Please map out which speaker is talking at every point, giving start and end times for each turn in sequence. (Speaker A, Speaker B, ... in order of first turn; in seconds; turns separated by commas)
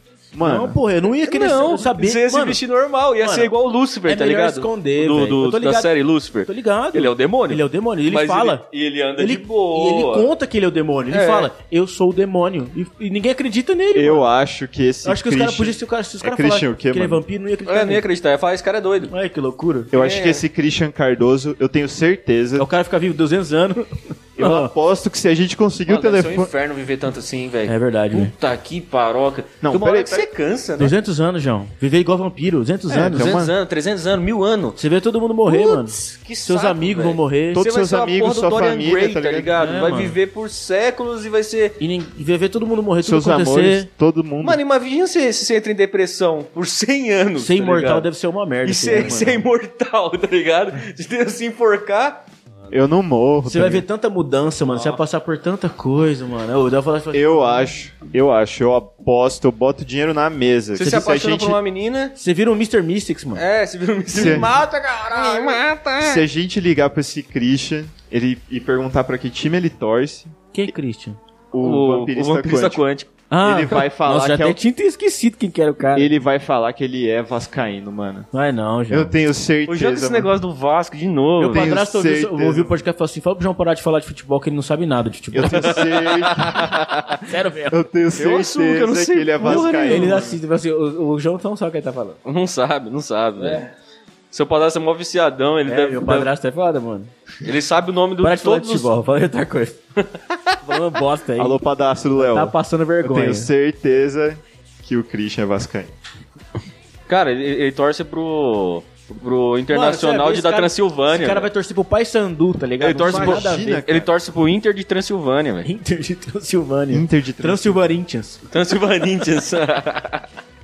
Speaker A: 0.3-0.8, Speaker B: 0.4-2.6, Speaker C: 1.2-10.3, Speaker B: 3.2-14.3, Speaker C: 11.1-11.5, Speaker A: 13.9-17.2, Speaker B: 15.0-18.1, Speaker C: 17.6-19.1, Speaker B: 19.1-19.9, Speaker A: 19.9-22.7, Speaker C: 19.9-20.4, Speaker B: 22.6-24.7, Speaker A: 24.4-26.5, Speaker C: 25.9-30.9, Speaker B: 27.7-28.3, Speaker A: 29.6-30.3, Speaker B: 30.8-33.4, Speaker A: 32.9-33.5, Speaker C: 33.0-34.8, Speaker B: 34.8-37.6, Speaker C: 35.5-41.8, Speaker A: 37.5-39.5, Speaker B: 39.6-40.2, Speaker B: 41.8-43.9, Speaker A: 43.0-44.6, Speaker C: 44.4-48.1, Speaker B: 47.4-49.4, Speaker C: 48.6-52.2, Speaker A: 48.9-49.4, Speaker A: 52.7-53.8, Speaker B: 53.4-57.7, Speaker C: 54.7-55.0, Speaker A: 57.1-61.6, Speaker C: 60.7-62.1, Speaker B: 60.8-61.1, Speaker B: 62.1-63.4, Speaker C: 63.3-66.2, Speaker B: 64.1-65.6, Speaker A: 64.1-64.5, Speaker A: 66.0-70.7, Speaker B: 70.5-71.2, Speaker A: 71.5-72.8, Speaker C: 71.6-73.1, Speaker B: 73.3-76.1, Speaker A: 73.4-74.6, Speaker A: 75.9-78.3, Speaker B: 78.3-79.2, Speaker A: 78.9-80.3, Speaker C: 79.7-81.7, Speaker B: 81.4-85.8, Speaker A: 81.5-82.8, Speaker A: 85.3-86.8, Speaker C: 85.5-87.2, Speaker B: 87.2-87.9, Speaker A: 87.7-90.4, Speaker C: 88.2-90.3, Speaker B: 89.4-92.2, Speaker C: 92.2-93.6, Speaker B: 93.4-93.7, Speaker C: 94.3-96.3, Speaker B: 95.7-97.1, Speaker C: 97.4-98.9, Speaker B: 98.2-99.8, Speaker C: 100.0-100.6, Speaker B: 100.6-101.6, Speaker A: 101.4-105.9, Speaker B: 102.1-103.5, Speaker C: 107.1-111.5, Speaker B: 109.7-113.8, Speaker C: 112.8-115.7, Speaker A: 113.0-114.1, Speaker B: 115.6-118.4, Speaker A: 116.9-117.8, Speaker C: 118.5-120.2